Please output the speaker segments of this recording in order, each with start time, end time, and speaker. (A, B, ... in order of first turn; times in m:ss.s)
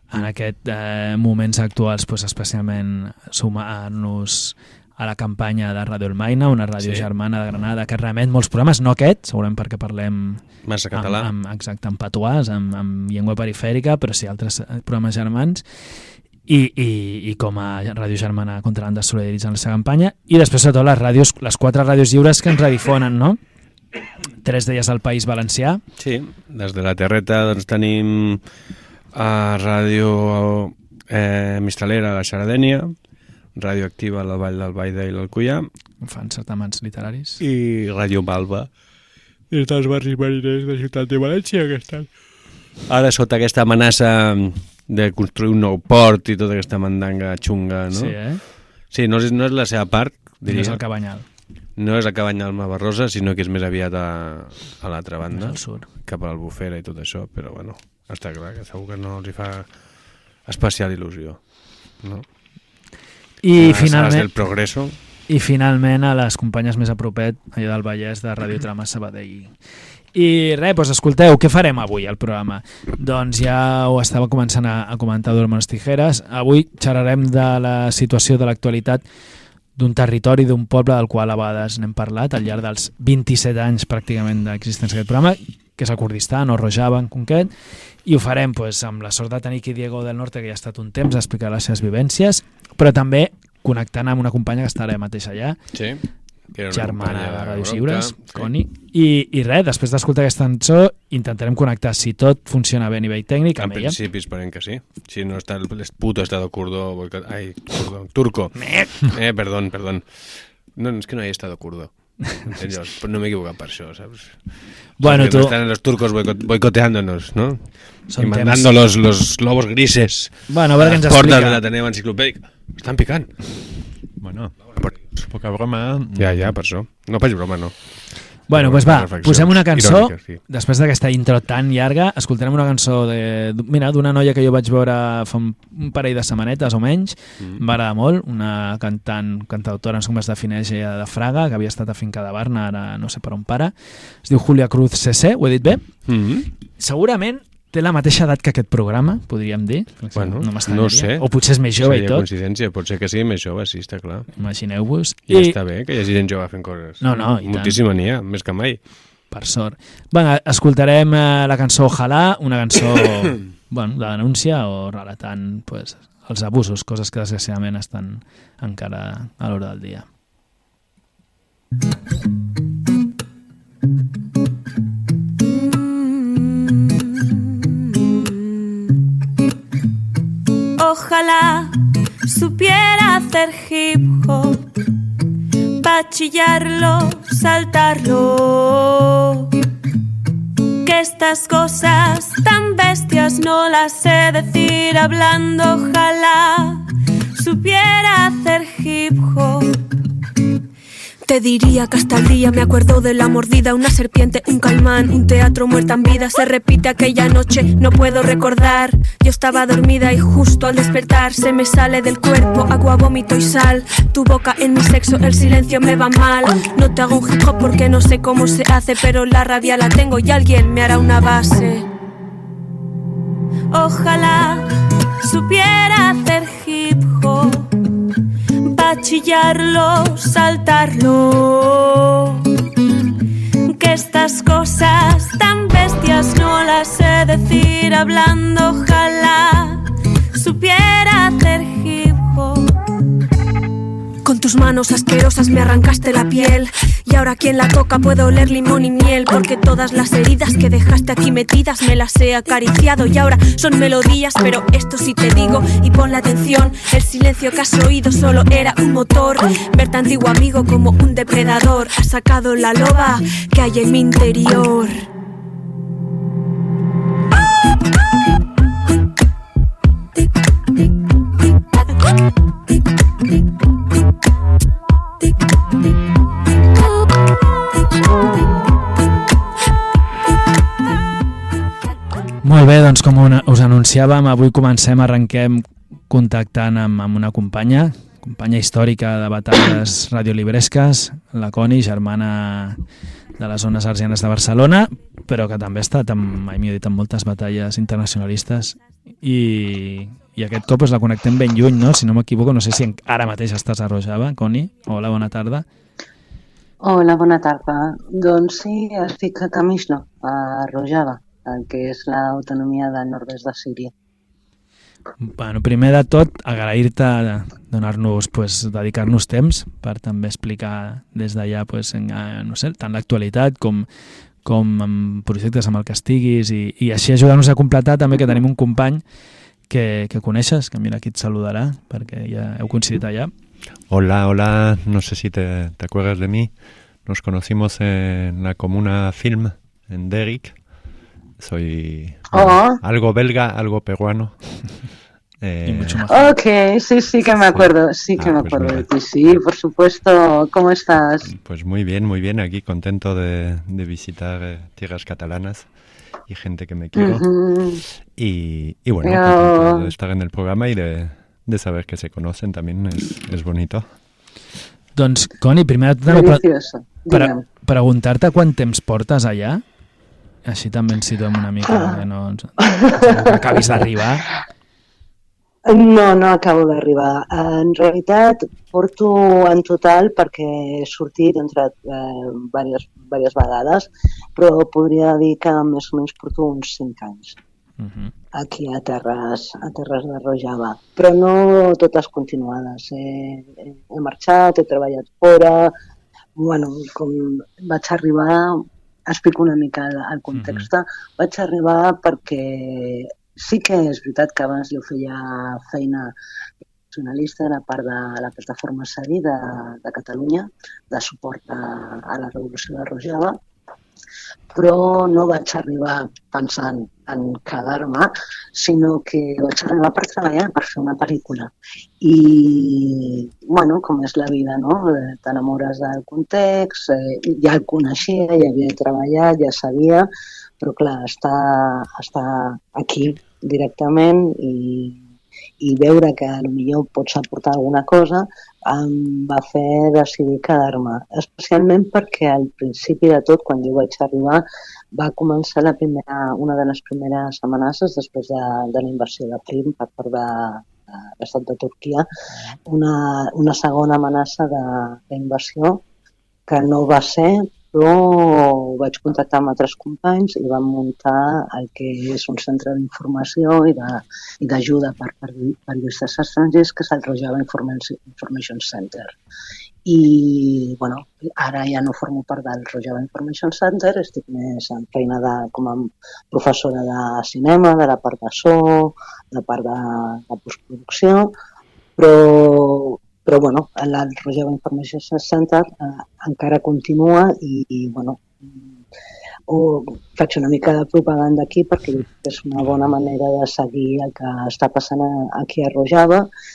0:00.1-0:15.9 A
0:06.8-0:07.1 B
0:10.6-0:11.3 B
0:16.5-0:23.4 A
0:24.4-0:25.8 A
0:26.0-0:28.4 B
0:29.1-0:32.9 B
0:33.6-0:35.7 B
0:36.0-0:37.4 A
0:37.4-0:38.7 B
0:39.5-0:42.1 B
0:42.9-0:50.9 B
0:47.9-0:48.4 A
0:50.4-0:51.2 A
0:51.8-1:02.2 B
0:55.3-0:55.9 A
1:03.4-1:04.7 A
1:03.6-1:05.0 B
1:05.3-1:09.6 A
1:10.1-1:19.0 A
1:19.8-1:27.5 A
1:28.0-1:35.6 A
1:35.7-1:38.5 B
1:36.7-1:44.0 A
1:43.6-2:03.4 B
1:48.6-1:48.9 A
1:55.0-1:55.5 A
1:58.1-1:58.7 A
2:00.5-2:01.6 A
2:04.2-2:06.6 C
2:06.2-2:10.4 B
2:08.5-2:26.1 A
2:26.1-2:26.5 B
2:26.8-2:32.2 A
2:30.1-2:34.3 B
2:34.4-2:35.6 A
2:35.3-2:38.9 B
2:37.0-2:37.8 A
2:39.3-2:50.1 A
2:55.7-2:58.9 D
3:00.8-3:04.6 D
3:05.8-3:09.5 D
3:10.8-3:19.7 D
3:21.2-3:41.9 D
3:43.7-3:47.7 D
3:48.6-3:52.4 D
3:53.6-4:02.7 D
4:04.2-4:25.0 D
4:42.4-4:52.8 A
4:53.4-5:05.6 A
5:06.8-5:13.9 E
5:15.2-5:23.9 A
5:24.4-5:29.0 A
5:29.7-5:33.3 A
5:33.9-5:36.5 C
5:37.0-5:40.6 C
5:41.4-5:44.4 C
5:42.3-5:42.8 E
5:45.4-5:46.1 C
5:45.6-5:46.3 A
5:46.1-5:51.3 E
5:47.4-5:48.9 C
5:51.2-5:55.7 C
5:56.3-5:57.3 C
5:57.0-5:57.8 E
5:58.2-6:03.9 C
5:59.0-5:59.9 E
6:05.0-6:06.4 A
6:06.1-6:07.4 E
6:07.1-6:09.6 A
6:10.4-6:14.3 A
6:11.7-6:12.0 E
6:12.6-6:13.8 E
6:15.6-6:27.4 E
6:27.8-6:28.1 A
6:28.3-6:35.7 E
6:36.4-6:46.1 E
6:40.3-6:40.7 A
6:46.9-6:53.4 E
6:54.5-7:01.5 E
7:02.0-7:10.1 E
7:10.6-7:15.0 E
7:15.6-7:32.1 E
7:32.6-7:35.8 E
7:36.5-7:49.1 E
7:49.9-8:01.3 E
8:02.0-8:08.6 E
8:09.5-8:16.3 E